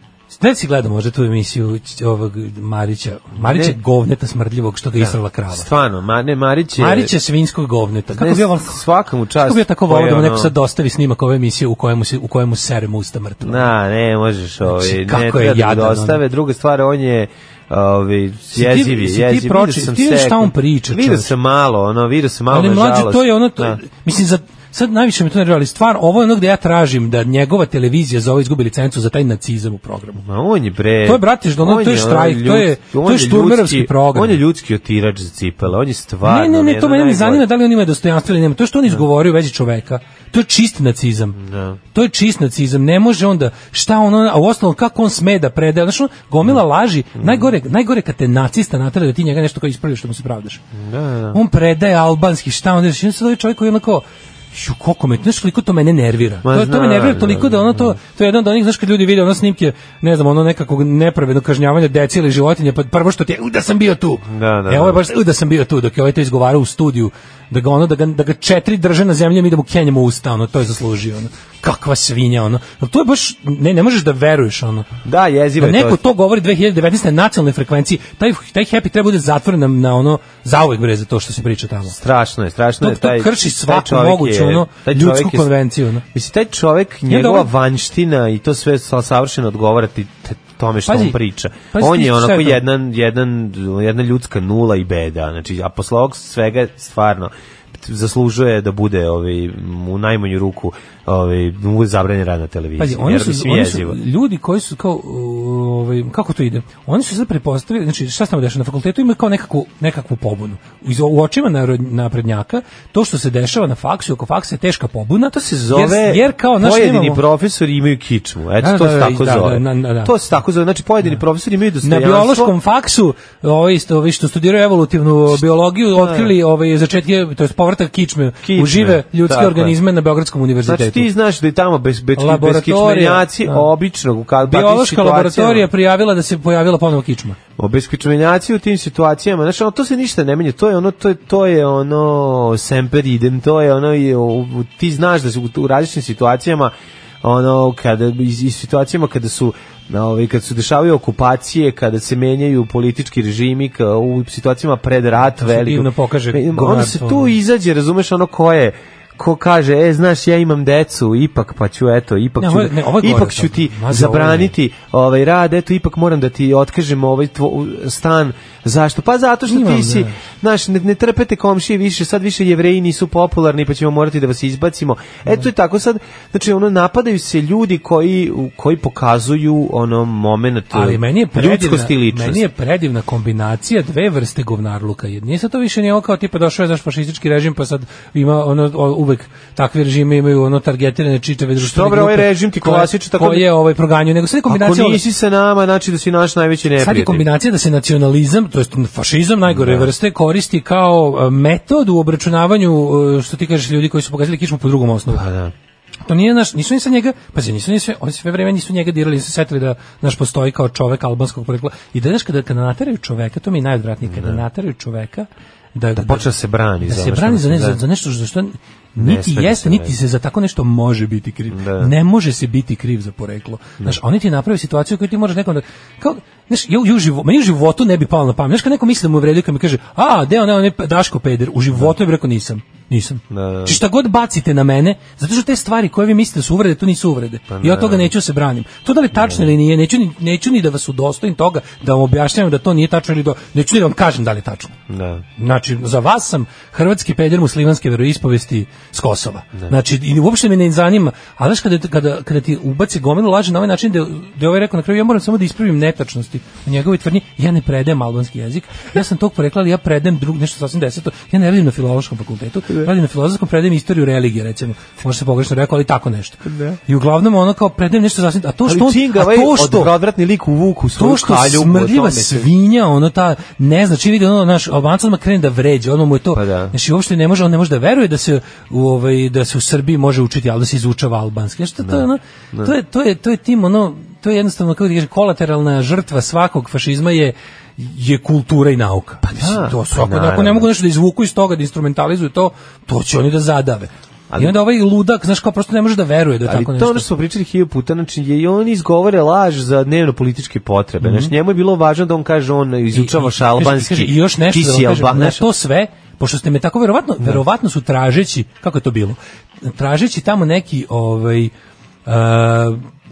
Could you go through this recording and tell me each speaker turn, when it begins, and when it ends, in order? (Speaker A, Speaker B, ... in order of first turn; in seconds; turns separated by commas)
Speaker A: 0.3-5.7, Speaker B: 3.4-3.8, Speaker B: 5.0-7.1, Speaker A: 6.8-8.8, Speaker B: 8.1-10.5, Speaker A: 9.4-13.7, Speaker B: 13.4-23.8, Speaker A: 14.6-16.2, Speaker A: 18.5-21.3, Speaker A: 22.5-30.2, Speaker B: 30.2-37.5, Speaker A: 31.0-34.4, Speaker A: 36.2-41.4, Speaker B: 41.4-41.8, Speaker A: 41.9-50.6, Speaker B: 47.2-47.5, Speaker B: 50.7-51.4, Speaker A: 51.3-74.9, Speaker B: 56.4-58.0, Speaker B: 64.3-65.0, Speaker B: 75.0-76.0, Speaker A: 75.6-82.0, Speaker B: 81.9-85.5, Speaker A: 82.8-86.0, Speaker B: 86.1-104.0, Speaker A: 87.1-87.5, Speaker A: 90.9-91.2, Speaker A: 91.7-92.6, Speaker A: 102.8-117.2, Speaker B: 115.3-122.5, Speaker A: 118.6-120.1, Speaker A: 121.8-131.1, Speaker B: 126.0-126.3, Speaker B: 128.4-129.8, Speaker B: 130.7-135.7, Speaker A: 132.2-133.7, Speaker A: 134.4-137.4, Speaker B: 137.6-182.4, Speaker A: 155.3-157.3, Speaker A: 162.4-164.5, Speaker A: 169.5-170.2, Speaker A: 180.7-195.0, Speaker B: 191.6-193.5, Speaker B: 194.5-197.2, Speaker A: 196.8-205.2, Speaker B: 199.5-199.9, Speaker B: 205.1-205.5, Speaker A: 206.1-216.3, Speaker B: 214.0-214.4, Speaker B: 215.9-217.8, Speaker A: 216.8-244.8, Speaker B: 219.0-220.0, Speaker B: 221.5-221.9, Speaker B: 233.3-233.8, Speaker B: 237.5-238.1, Speaker B: 239.1-239.5, Speaker B: 244.9-245.2, Speaker A: 245.4-269.9, Speaker B: 266.5-266.8, Speaker B: 268.6-272.5, Speaker A: 270.9-297.1, Speaker B: 276.3-276.7, Speaker B: 281.8-282.7, Speaker B: 289.2-290.7, Speaker B: 294.3-294.6, Speaker B: 296.4-305.4, Speaker A: 301.0-301.3, Speaker A: 302.9-311.5, Speaker A: 312.1-312.8